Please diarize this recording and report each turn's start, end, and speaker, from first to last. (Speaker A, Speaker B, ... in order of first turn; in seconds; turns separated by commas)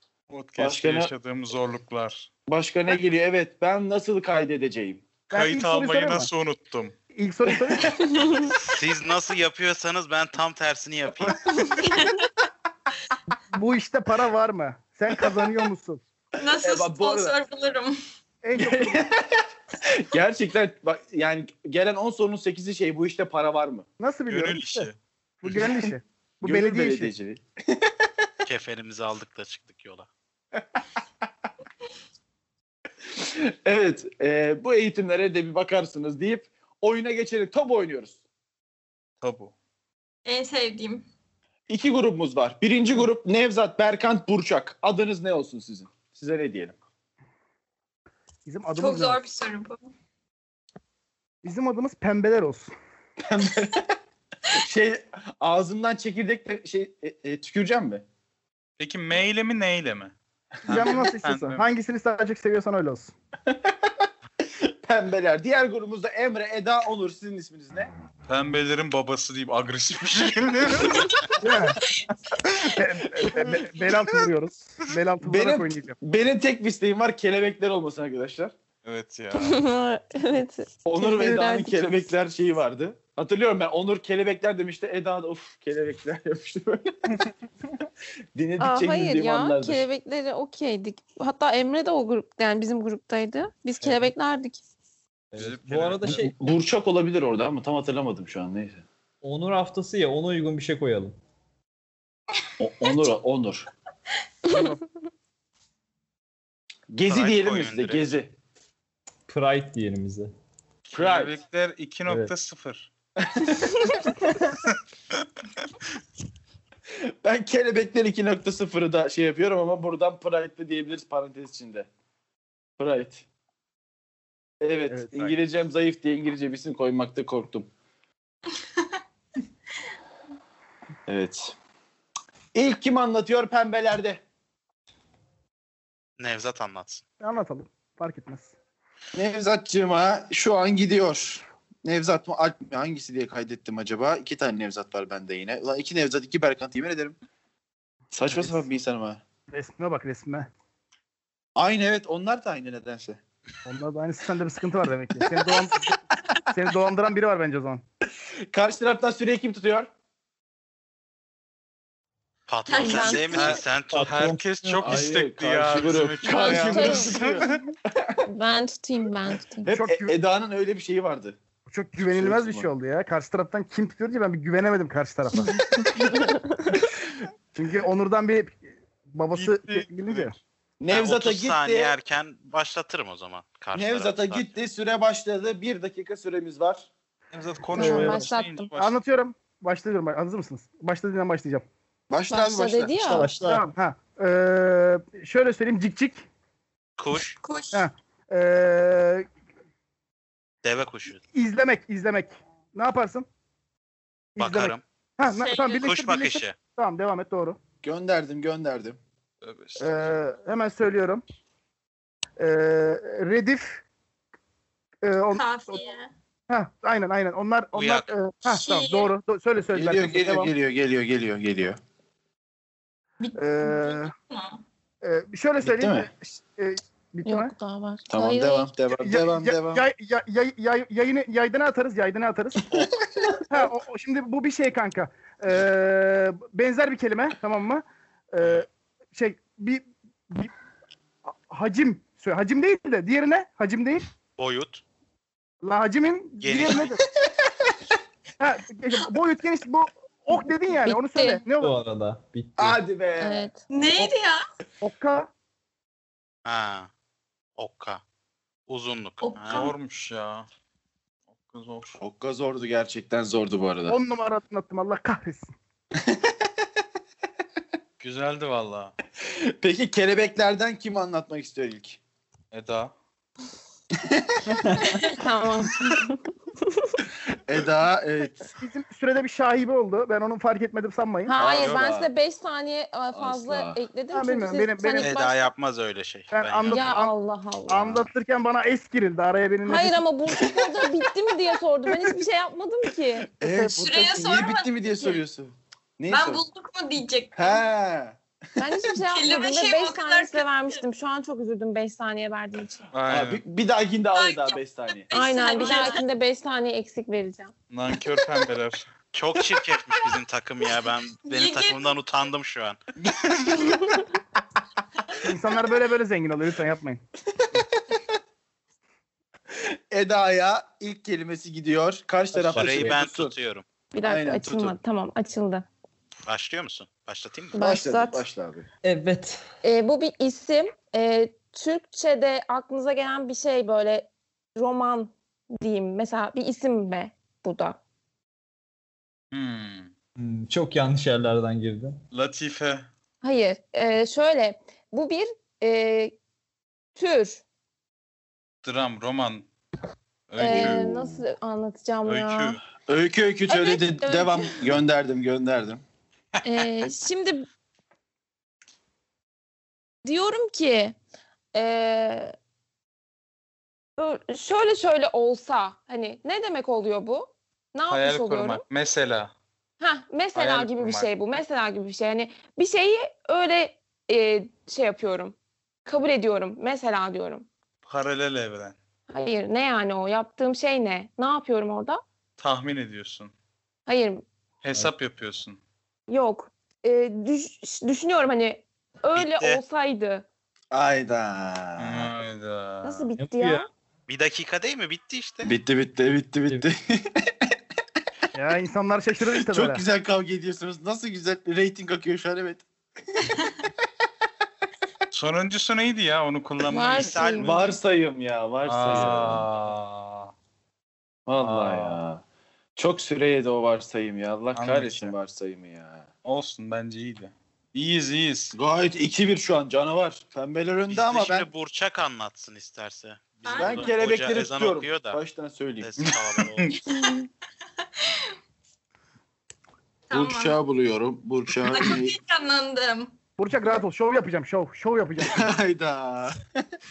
Speaker A: 0.3-2.3, Speaker B: 0.6-1.1, Speaker B: 2.5-5.1, Speaker C: 5.3-6.3, Speaker A: 5.3-7.0, Speaker C: 7.1-8.0, Speaker B: 7.6-7.9, Speaker D: 8.0-8.5, Speaker E: 8.6-11.7, Speaker D: 11.6-12.2, Speaker C: 13.5-16.0, Speaker D: 16.4-18.0, Speaker B: 16.6-17.4, Speaker C: 18.4-19.0, Speaker B: 18.6-23.9, Speaker C: 24.0-24.9, Speaker A: 24.3-25.0, Speaker C: 25.4-27.1, Speaker B: 26.4-28.3, Speaker E: 28.4-30.1, Speaker B: 33.2-38.2, Speaker A: 39.2-39.5, Speaker D: 40.2-41.1, Speaker B: 41.7-46.8, Speaker C: 48.5-49.2, Speaker D: 48.8-49.8, Speaker C: 51.4-52.7, Speaker B: 53.2-54.0, Speaker B: 54.5-58.0, Speaker A: 58.8-60.1, Speaker A: 60.6-61.7, Speaker C: 60.7-63.1, Speaker B: 63.5-67.9, Speaker A: 68.3-71.1, Speaker C: 71.4-71.8, Speaker C: 72.7-76.0, Speaker B: 73.0-74.0, Speaker B: 75.2-78.5, Speaker A: 78.8-79.6, Speaker F: 79.3-81.7, Speaker B: 80.9-87.3, Speaker B: 88.3-89.8, Speaker F: 88.6-94.6, Speaker G: 93.8-94.1, Speaker G: 95.3-96.3, Speaker A: 95.4-96.3, Speaker B: 96.0-98.8, Speaker G: 99.2-101.2, Speaker B: 102.6-103.7, Speaker F: 104.5-104.8, Speaker C: 104.5-104.8, Speaker B: 106.9-108.3, Speaker E: 107.1-108.1, Speaker G: 109.3-110.3, Speaker A: 110.9-112.9, Speaker B: 110.9-111.4, Speaker G: 112.1-112.3, Speaker B: 113.2-114.0, Speaker A: 114.5-114.8, Speaker B: 116.9-121.9, Speaker B: 122.8-123.2, Speaker B: 124.6-127.7, Speaker C: 124.9-125.3, Speaker B: 131.1-131.6, Speaker B: 132.5-134.2, Speaker E: 136.2-137.0, Speaker C: 137.2-138.5, Speaker B: 139.2-147.2, Speaker B: 148.1-149.2, Speaker C: 148.3-148.6, Speaker C: 149.5-150.5, Speaker B: 151.6-153.2, Speaker C: 153.7-156.0, Speaker C: 156.5-157.8, Speaker B: 158.5-159.9, Speaker E: 162.5-164.2, Speaker D: 162.7-163.6, Speaker F: 162.8-163.3, Speaker A: 163.3-167.6, Speaker G: 163.9-165.1, Speaker B: 164.8-168.2, Speaker F: 166.3-167.2, Speaker F: 168.2-169.7, Speaker B: 169.6-171.4, Speaker C: 169.7-170.2, Speaker C: 171.7-175.6, Speaker B: 172.0-172.7, Speaker C: 177.5-180.3, Speaker A: 179.3-180.3, Speaker B: 180.8-181.9, Speaker E: 180.9-184.5, Speaker B: 183.7-186.9, Speaker A: 187.3-189.0, Speaker C: 187.8-188.2, Speaker F: 187.8-188.7, Speaker C: 188.8-191.7, Speaker B: 192.1-193.0, Speaker F: 192.3-193.5, Speaker G: 193.0-193.7, Speaker C: 193.5-196.2, Speaker E: 197.0-197.4, Speaker D: 197.4-197.9, Speaker C: 197.7-199.3, Speaker E: 200.6-201.2, Speaker C: 201.3-203.3, Speaker C: 204.4-207.6, Speaker E: 204.4-204.8, Speaker D: 205.3-205.9, Speaker E: 205.8-206.6, Speaker B: 207.8-209.0, Speaker A: 209.4-210.1, Speaker C: 209.8-211.2, Speaker C: 212.4-213.8, Speaker C: 215.0-215.8, Speaker D: 215.3-216.1, Speaker C: 216.5-220.5, Speaker E: 217.7-218.1, Speaker D: 218.5-219.1, Speaker B: 219.7-221.8, Speaker D: 223.2-224.6, Speaker C: 223.4-224.1, Speaker C: 225.0-227.5, Speaker B: 225.6-226.1, Speaker F: 227.2-228.7, Speaker B: 228.1-229.8, Speaker C: 228.9-232.7, Speaker C: 233.5-240.5, Speaker C: 241.5-244.1, Speaker E: 244.4-244.8, Speaker C: 245.6-247.0, Speaker E: 246.4-247.0, Speaker C: 248.4-251.8, Speaker F: 250.8-251.4, Speaker G: 251.6-252.8, Speaker B: 252.6-253.5, Speaker F: 253.2-253.6, Speaker D: 253.7-254.4, Speaker C: 254.8-255.3, Speaker E: 256.4-256.9, Speaker E: 257.6-258.0, Speaker E: 258.7-259.7, Speaker D: 259.2-259.8, Speaker A: 259.5-260.5, Speaker A: 261.3-262.0, Speaker B: 262.0-264.0, Speaker C: 263.9-265.5, Speaker B: 266.0-266.5, Speaker A: 268.0-268.9, Speaker B: 269.2-272.0, Speaker A: 272.5-272.9, Speaker B: 274.0-274.4, Speaker G: 274.6-274.9, Speaker F: 275.1-276.9, Speaker B: 277.3-278.4, Speaker C: 278.5-281.3, Speaker F: 281.3-285.5, Speaker B: 281.4-282.1, Speaker A: 281.4-281.9, Speaker B: 283.1-283.8, Speaker C: 284.1-285.1, Speaker E: 285.0-287.0, Speaker C: 286.3-287.1, Speaker F: 286.7-288.1, Speaker C: 287.7-290.0, Speaker F: 289.7-293.4, Speaker B: 293.3-296.4, Speaker D: 293.5-295.2, Speaker D: 296.1-297.6, Speaker B: 297.3-298.2, Speaker F: 298.6-302.9, Speaker D: 299.0-300.8, Speaker A: 302.9-303.4, Speaker B: 303.1-305.1, Speaker D: 304.1-306.1, Speaker F: 305.1-307.5, Speaker A: 307.7-308.9, Speaker E: 309.1-312.8, Speaker D: 311.2-312.0, Speaker B: 313.2-313.8, Speaker C: 315.2-317.0, Speaker B: 319.5-323.3, Speaker G: 322.3-323.0, Speaker E: 322.6-323.6, Speaker F: 323.9-325.7, Speaker B: 324.0-324.8, Speaker E: 326.3-327.6, Speaker F: 327.5-328.2, Speaker B: 327.6-328.7, Speaker G: 328.8-329.4, Speaker F: 329.6-337.8, Speaker A: 339.3-339.9, Speaker G: 340.2-342.0, Speaker A: 342.1-342.9, Speaker F: 343.2-346.1, Speaker F: 347.0-347.4, Speaker A: 348.6-349.5, Speaker A: 350.3-351.1, Speaker F: 350.4-352.6, Speaker B: 350.4-350.9, Speaker A: 352.1-352.6, Speaker B: 352.8-355.8, Speaker F: 353.5-354.7, Speaker F: 356.4-357.5, Speaker F: 360.0-361.0, Speaker F: 361.5-362.4, Speaker F: 364.0-368.6, Speaker A: 367.9-369.3, Speaker F: 369.8-375.4, Speaker A: 370.3-371.1, Speaker F: 375.9-377.5, Speaker A: 377.8-378.8, Speaker F: 379.1-382.0, Speaker A: 382.4-383.3, Speaker F: 383.9-384.2, Speaker A: 384.6-385.6, Speaker F: 386.1-390.3, Speaker E: 389.1-389.6, Speaker B: 390.7-392.1, Speaker A: 391.8-393.1, Speaker F: 392.8-393.7, Speaker G: 393.2-393.7, Speaker E: 394.1-395.5, Speaker B: 395.4-397.4, Speaker C: 398.4-399.8, Speaker B: 399.2-402.7, Speaker A: 405.1-407.1, Speaker F: 406.7-407.6, Speaker E: 406.9-407.8, Speaker B: 407.4-409.5, Speaker A: 408.7-410.3, Speaker B: 411.3-412.2, Speaker A: 411.4-412.0, Speaker B: 412.8-416.1, Speaker A: 414.5-415.1, Speaker A: 416.2-418.6, Speaker B: 418.5-421.5, Speaker E: 420.9-425.2, Speaker D: 423.4-424.0, Speaker B: 423.6-425.9, Speaker E: 425.8-426.8, Speaker A: 426.0-426.8, Speaker D: 430.1-430.6, Speaker B: 430.1-432.1, Speaker D: 431.6-433.1, Speaker C: 433.4-435.5, Speaker B: 435.2-436.4